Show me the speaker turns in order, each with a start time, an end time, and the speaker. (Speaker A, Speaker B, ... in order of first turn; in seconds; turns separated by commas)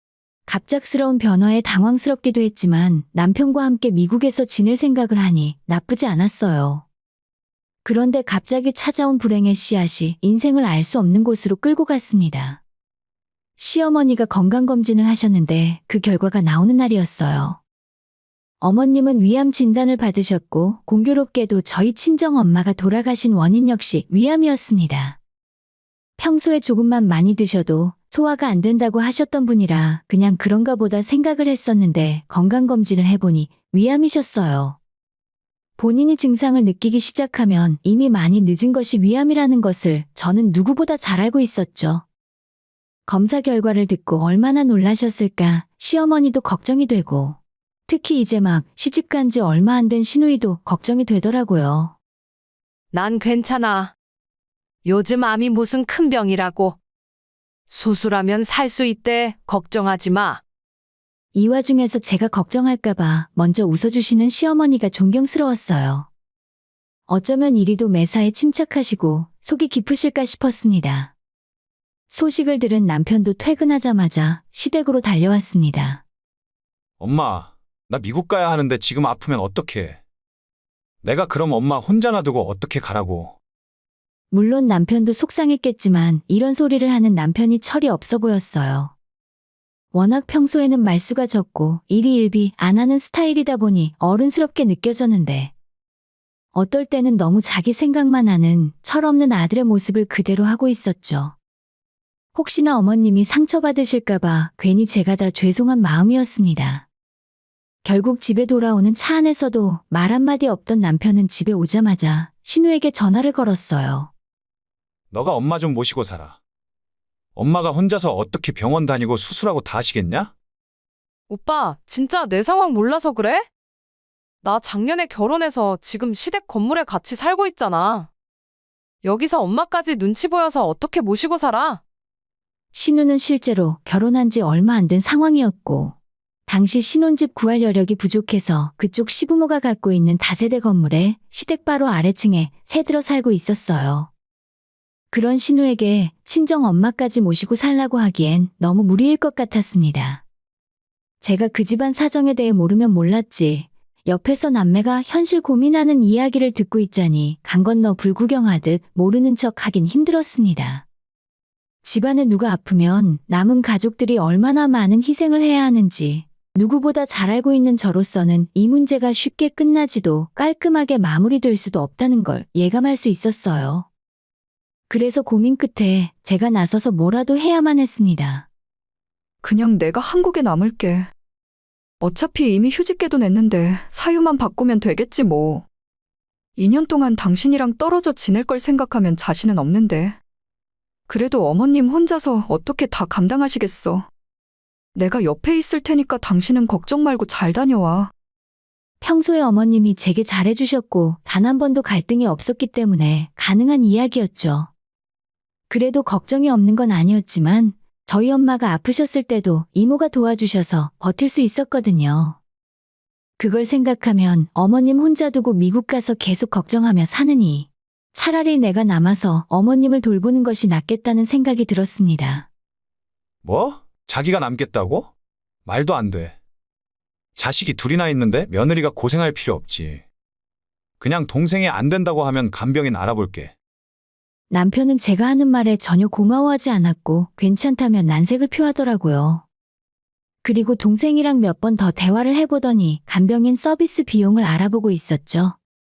Speaker A: 0.5-6.8, Speaker A: 7.8-12.6, Speaker A: 13.6-17.6, Speaker A: 18.6-25.2, Speaker A: 26.2-34.8, Speaker A: 35.8-42.0, Speaker A: 43.1-52.0, Speaker B: 52.9-53.9, Speaker B: 54.8-56.8, Speaker B: 57.7-60.4, Speaker A: 61.3-66.1, Speaker A: 67.1-71.1, Speaker A: 72.1-76.0, Speaker C: 77.0-80.0, Speaker C: 81.0-83.3, Speaker A: 84.3-88.9, Speaker A: 89.9-95.5, Speaker A: 96.5-101.3, Speaker A: 102.3-106.8, Speaker A: 107.8-114.1, Speaker C: 115.1-116.4, Speaker C: 117.3-120.3, Speaker B: 121.3-123.5, Speaker B: 124.4-128.1, Speaker B: 129.0-131.8, Speaker A: 132.7-135.9, Speaker A: 136.5-144.1, Speaker A: 145.1-150.2, Speaker A: 151.2-160.8, Speaker A: 161.8-173.9, Speaker A: 174.9-178.4, Speaker D: 179.4-181.1, Speaker D: 182.0-185.7, Speaker D: 186.6-190.2, Speaker D: 191.1-194.1, Speaker D: 194.9-198.1, Speaker A: 199.0-204.7, Speaker A: 205.7-212.4, Speaker A: 213.4-222.5, Speaker C: 223.4-225.1, Speaker C: 225.7-226.3, Speaker C: 227.4-230.0, Speaker C: 231.0-233.5, Speaker A: 234.5-239.4, Speaker A: 240.4-245.6